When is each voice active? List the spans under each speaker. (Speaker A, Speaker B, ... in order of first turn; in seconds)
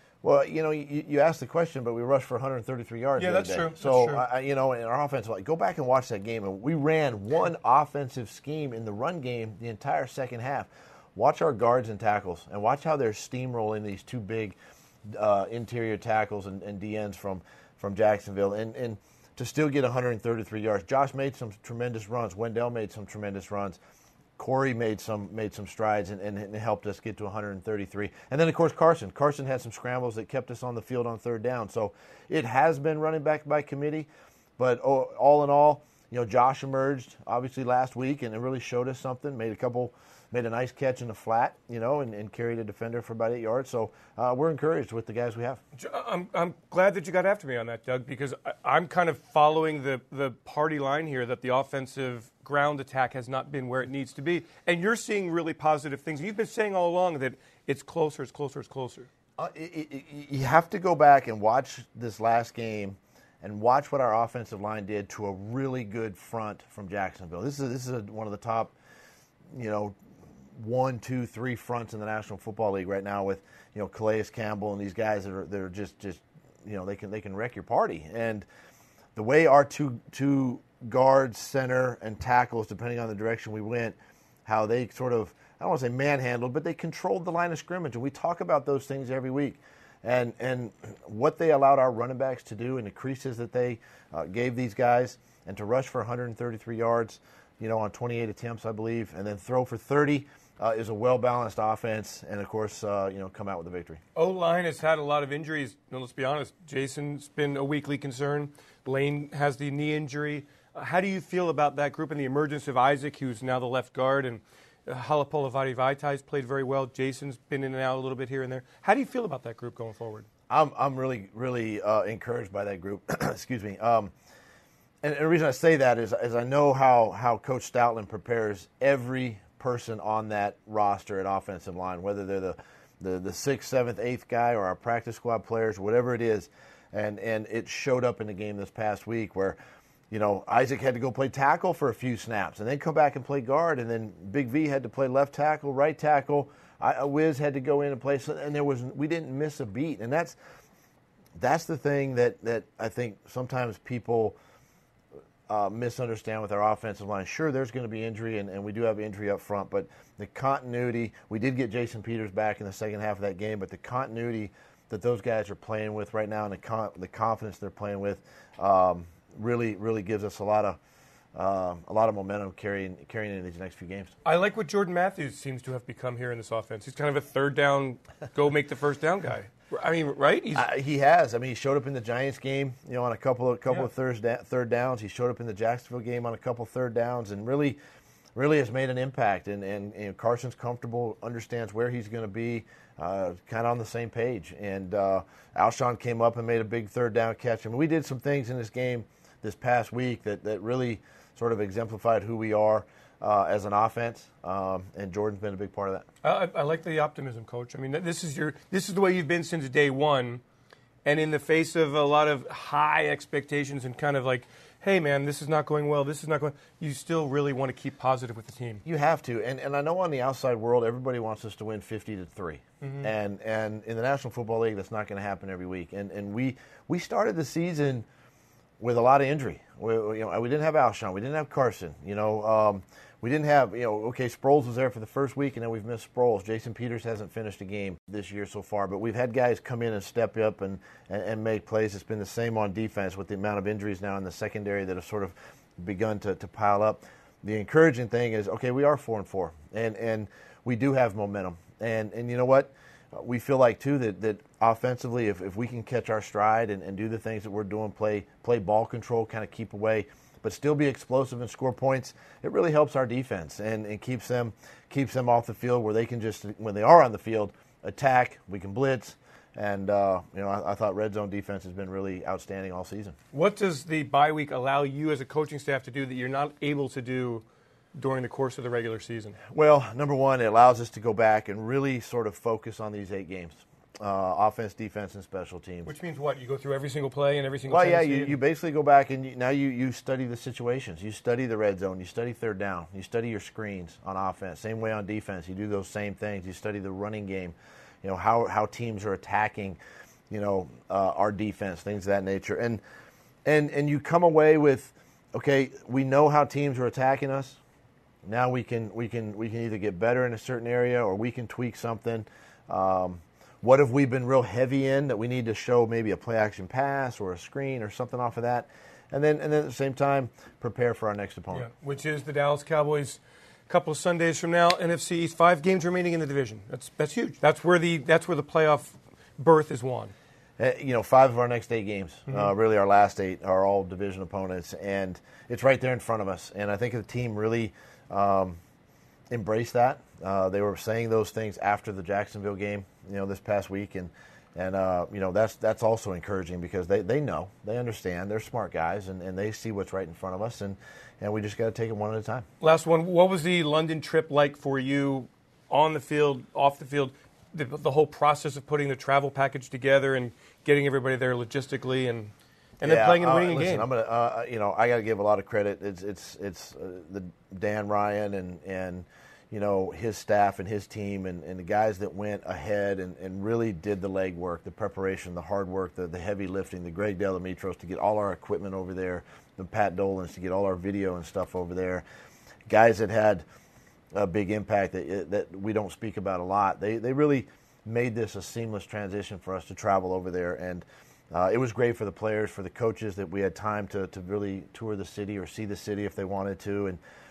Speaker A: 0.2-14.6, 15.1-23.8, 24.4-45.6, 59.4-68.7, 69.5-70.0, 70.5-78.5, 79.1-104.0, 120.5-124.1, 125.0-139.6, 140.1-150.4, 151.3-154.4, 155.5-170.8, 171.3-174.1, 180.5-187.8, 188.3-206.0, 218.8-228.0, 228.8-273.1, 279.5-285.9, 287.7-299.8, 300.3-302.8, 303.4-307.6, 308.2-321.7, 330.6-338.6, 339.3-352.4, 362.8-382.0, 382.7-383.4, 384.1-397.0
Speaker B: 3.2-4.2, 45.7-59.1, 104.1-120.3, 174.2-180.7, 206.2-210.4, 211.0-218.8, 222.8-223.1, 273.3-279.4, 285.9-288.4, 321.5-330.1, 352.6-363.9